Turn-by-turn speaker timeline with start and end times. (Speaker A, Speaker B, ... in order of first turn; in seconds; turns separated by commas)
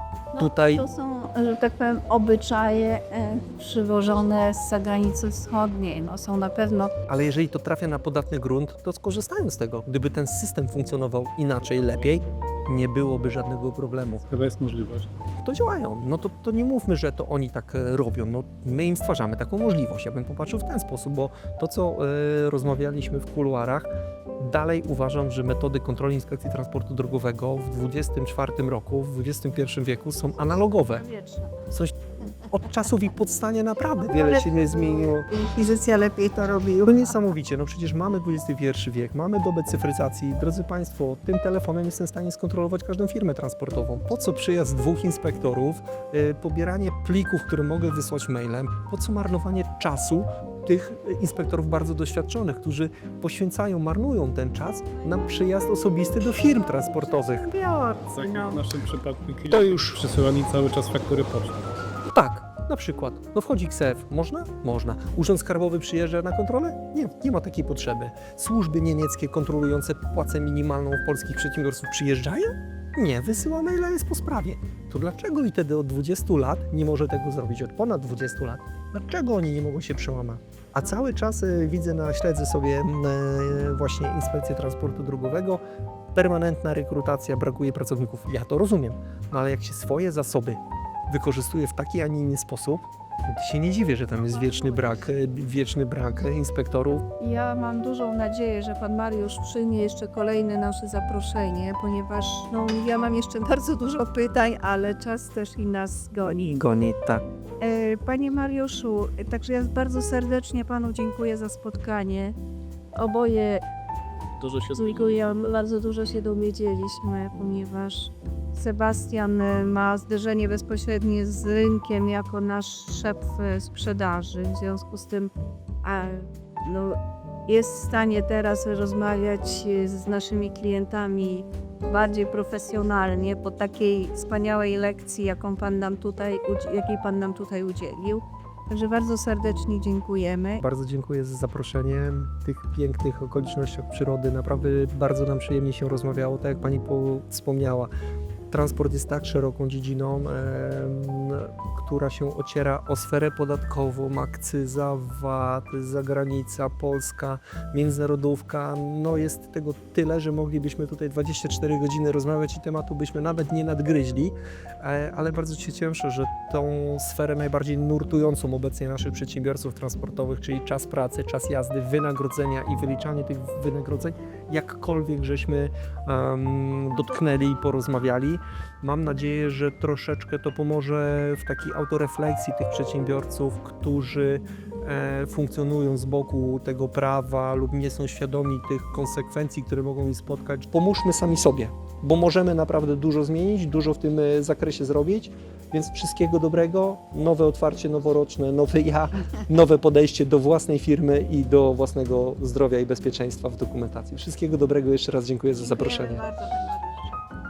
Speaker A: 0.3-7.0, Speaker B: 0.4-0.8, Speaker B: 7.1-14.2, Speaker C: 11.7-12.1, Speaker C: 14.3-15.1, Speaker B: 15.4-31.0, Speaker A: 30.5-31.6, Speaker B: 31.7-35.3, Speaker A: 34.0-37.0, Speaker B: 36.8-58.2, Speaker A: 56.6-57.8, Speaker C: 58.0-61.7, Speaker B: 59.5-60.0, Speaker B: 62.1-85.6, Speaker B: 86.1-97.1, Speaker A: 94.2-95.1, Speaker A: 97.2-106.7, Speaker B: 106.5-107.2, Speaker A: 107.6-112.4, Speaker A: 113.0-113.6, Speaker A: 114.5-125.3, Speaker A: 125.8-140.6, Speaker B: 140.6-147.9, Speaker B: 148.5-206.3, Speaker A: 205.5-207.1